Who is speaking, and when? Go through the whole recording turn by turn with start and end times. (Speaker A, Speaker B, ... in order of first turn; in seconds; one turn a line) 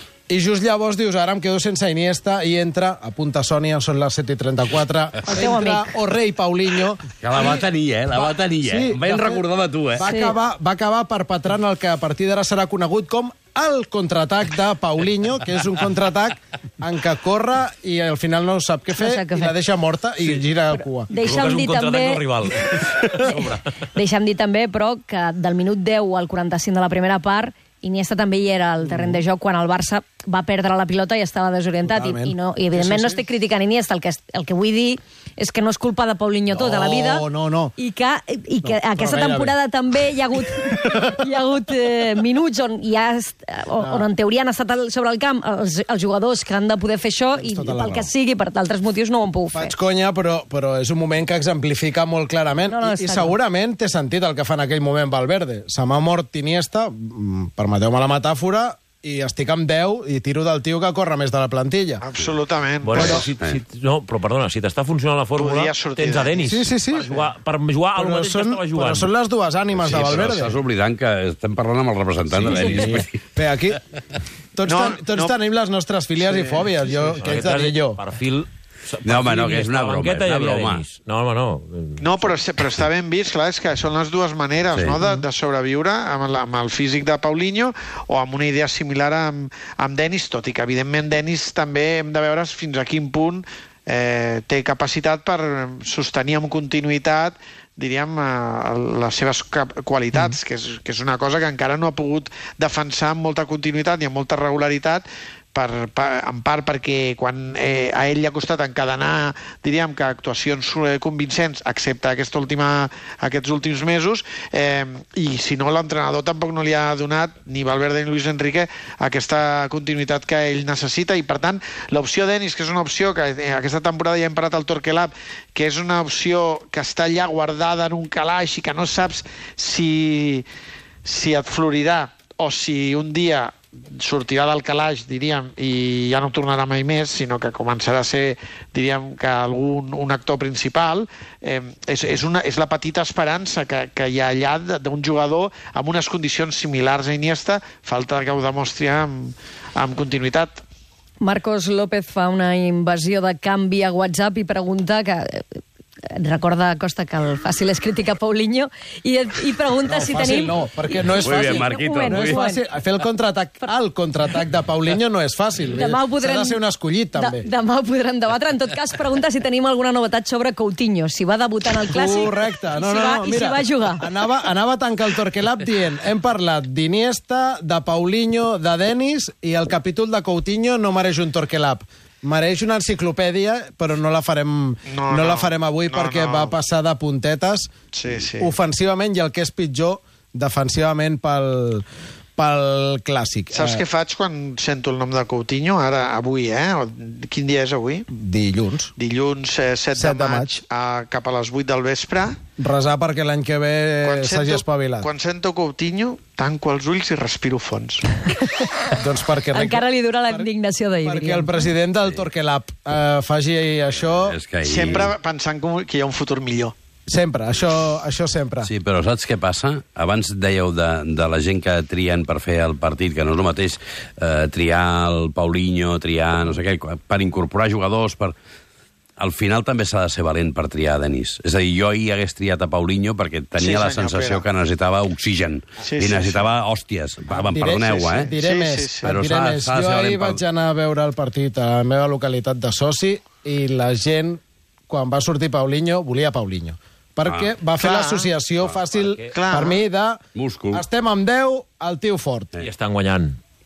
Speaker A: 0.3-21.1
Speaker B: 5.3-5.9
Speaker C: 7.2-10.1
Speaker B: 10.0-10.4
Speaker B: 18.9-19.5
Speaker B: 20.7-22.2
Speaker D: 21.2-23.6
Speaker B: 23.2-37.2
Speaker A: 28.8-29.2
Speaker A: 31.8-33.2
Speaker A: 36.5-37.7
Speaker B: 37.8-49.8
Speaker A: 38.6-39.6
Speaker A: 40.6-41.0
Speaker A: 43.8-44.1
Speaker A: 47.3-48.1
Speaker A: 49.5-62.0
Speaker B: 52.7-53.3
Speaker E: 62.0-63.2
Speaker D: 62.8-69.1
Speaker A: 62.9-63.3
Speaker E: 65.4-66.6
Speaker A: 66.4-67.1
Speaker A: 67.9-70.6
Speaker C: 69.7-73.2
Speaker A: 72.3-73.8
Speaker A: 74.5-78.0
Speaker E: 74.7-75.3
Speaker E: 76.2-77.1
Speaker D: 77.2-82.3
Speaker C: 79.0-80.8
Speaker E: 82.0-130.4
Speaker C: 84.7-85.0
Speaker E: 131.0-150.6
Speaker B: 151.2-155.6
Speaker B: 156.1-162.7
Speaker A: 159.8-167.5
Speaker C: 161.1-162.4
Speaker B: 165.7-166.6
Speaker B: 167.1-174.2
Speaker A: 171.9-191.8
Speaker E: 184.9-186.5
Speaker E: 187.9-188.5
Speaker A: 192.3-193.8
Speaker E: 193.5-198.1
Speaker A: 198.1-198.9
Speaker E: 199.0-202.4
Speaker A: 199.9-200.6
Speaker A: 202.6-205.1
Speaker E: 204.0-208.0
Speaker B: 208.3-208.9
Speaker A: 208.9-210.5
Speaker B: 209.5-211.7
Speaker A: 211.0-214.3
Speaker C: 214.0-215.1
Speaker E: 214.6-216.7
Speaker A: 217.1-218.7
Speaker C: 218.6-228.3
Speaker C: 229.2-238.3
Speaker E: 233.6-234.5
Speaker E: 235.8-236.5
Speaker A: 237.3-252.5
Speaker E: 238.3-239.1
Speaker C: 239.0-240.4
Speaker C: 247.2-247.6
Speaker E: 247.8-248.3
Speaker D: 248.9-249.3
Speaker E: 249.3-249.8
Speaker C: 250.3-250.8
Speaker D: 252.6-253.4